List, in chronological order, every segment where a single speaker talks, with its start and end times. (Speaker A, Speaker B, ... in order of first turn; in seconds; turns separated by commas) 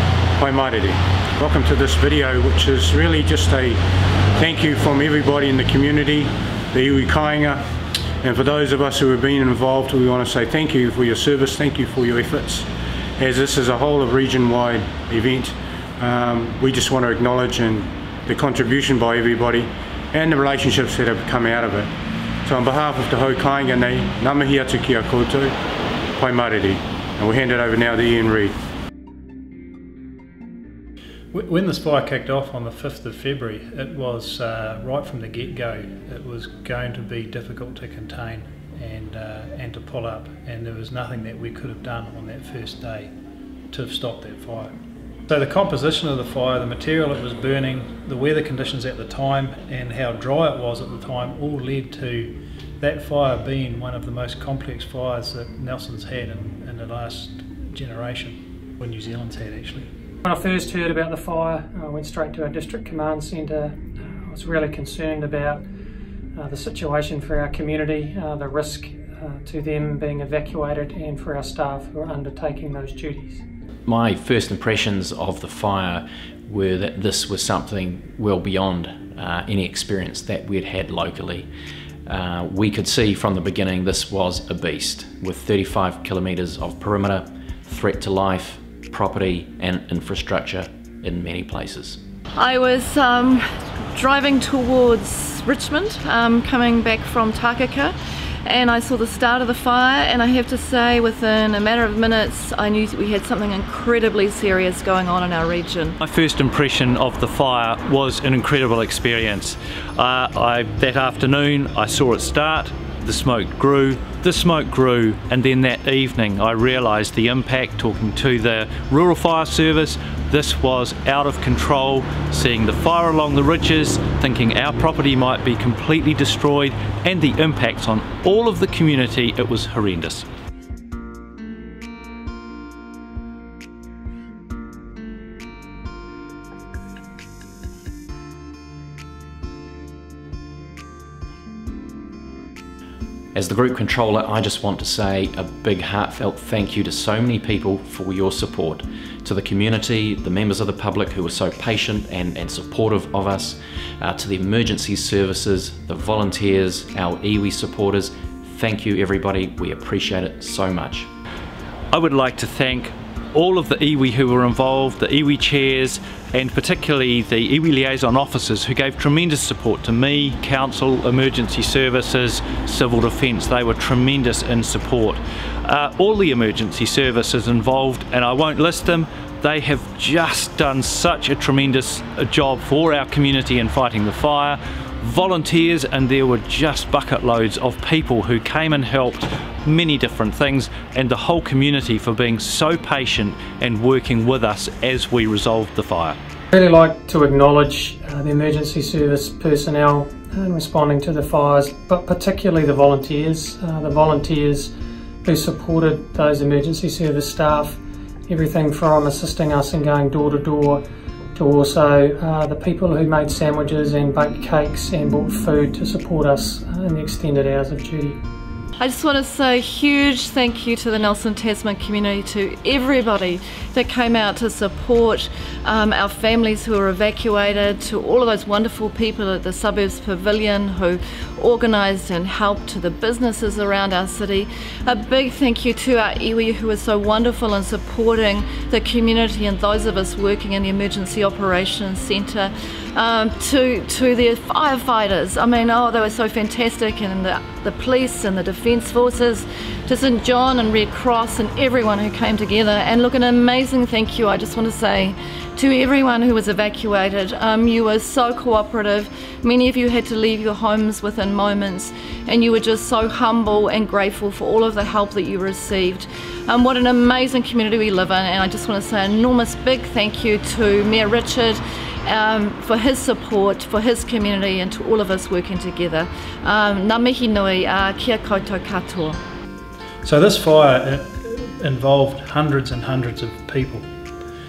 Speaker A: 0.4-3.8, Speaker A: 4.3-7.6, Speaker A: 8.2-12.7, Speaker A: 13.2-21.9, Speaker A: 22.4-25.5, Speaker A: 26.2-28.5, Speaker B: 31.3-43.1, Speaker B: 43.7-44.7, Speaker B: 45.3-59.9, Speaker C: 60.2-65.6, Speaker C: 66.3-73.4, Speaker D: 73.8-81.5, Speaker D: 82.0-92.0, Speaker E: 92.3-97.9, Speaker E: 98.4-106.0, Speaker F: 106.0-130.2, Speaker D: 143.3-161.1, Speaker F: 161.9-196.2, Speaker C: 196.5-204.7, Speaker C: 205.2-210.8, Speaker C: 211.3-218.2, Speaker E: 218.8-279.2, Speaker B: 280.0-283.9